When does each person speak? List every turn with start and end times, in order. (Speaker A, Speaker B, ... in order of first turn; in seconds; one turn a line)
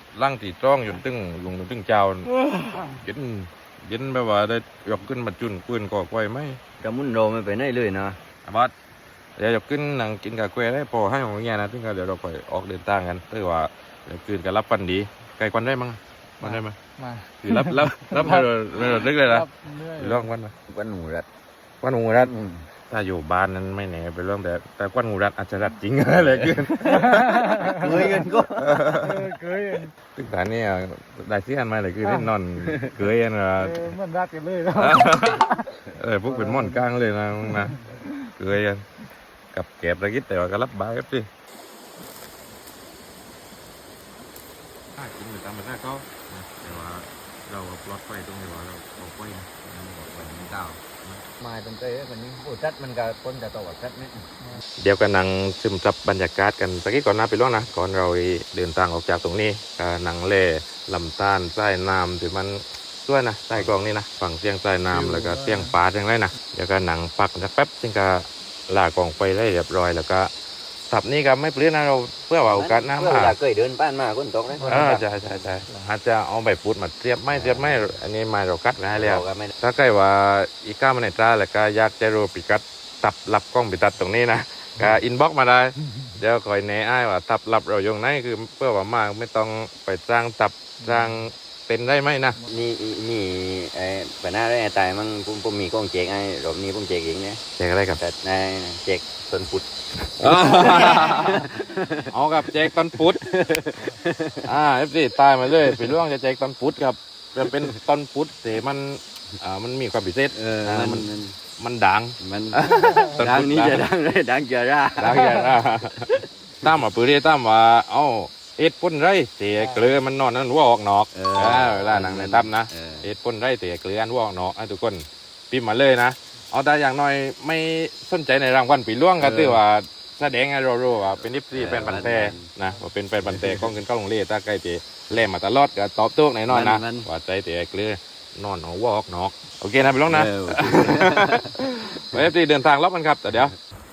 Speaker A: 0.1-6.6
Speaker B: 6.8-8.2
Speaker A: 8.4-8.7
Speaker A: 9.4-16.8
Speaker C: 17.0-17.3
Speaker A: 17.4-20.5
Speaker C: 18.0-18.5
Speaker C: 19.0-20.2
Speaker B: 20.7-21.3
Speaker A: 21.8-22.3
Speaker B: 22.2-22.7
Speaker A: 22.9-29.3
Speaker C: 26.8-28.0
Speaker B: 27.7-28.9
Speaker C: 28.9-29.9
Speaker A: 30.1-34.0
Speaker C: 32.0-32.3
Speaker B: 32.6-32.9
Speaker C: 33.6-35.4
Speaker A: 34.7-38.8
Speaker A: 39.5-41.3
Speaker A: 44.9-51.2
Speaker B: 49.9-54.3
Speaker A: 54.8-70.3
Speaker A: 70.9-73.3
Speaker B: 72.5-75.4
Speaker A: 74.6-92.4
Speaker B: 77.3-77.9
Speaker B: 78.9-79.5
Speaker B: 92.5-97.4
Speaker A: 97.6-98.0
Speaker B: 98.0-99.7
Speaker A: 100.1-101.5
Speaker B: 100.2-104.5
Speaker A: 102.1-103.2
Speaker A: 104.4-113.8
Speaker B: 105.6-105.9
Speaker B: 110.3-111.3
Speaker B: 112.2-116.3
Speaker A: 115.0-143.6
Speaker B: 119.5-119.9
Speaker B: 121.1-123.1
Speaker B: 129.2-129.6
Speaker B: 131.5-132.5
Speaker B: 133.2-133.7
Speaker B: 136.5-137.1
Speaker B: 140.1-141.5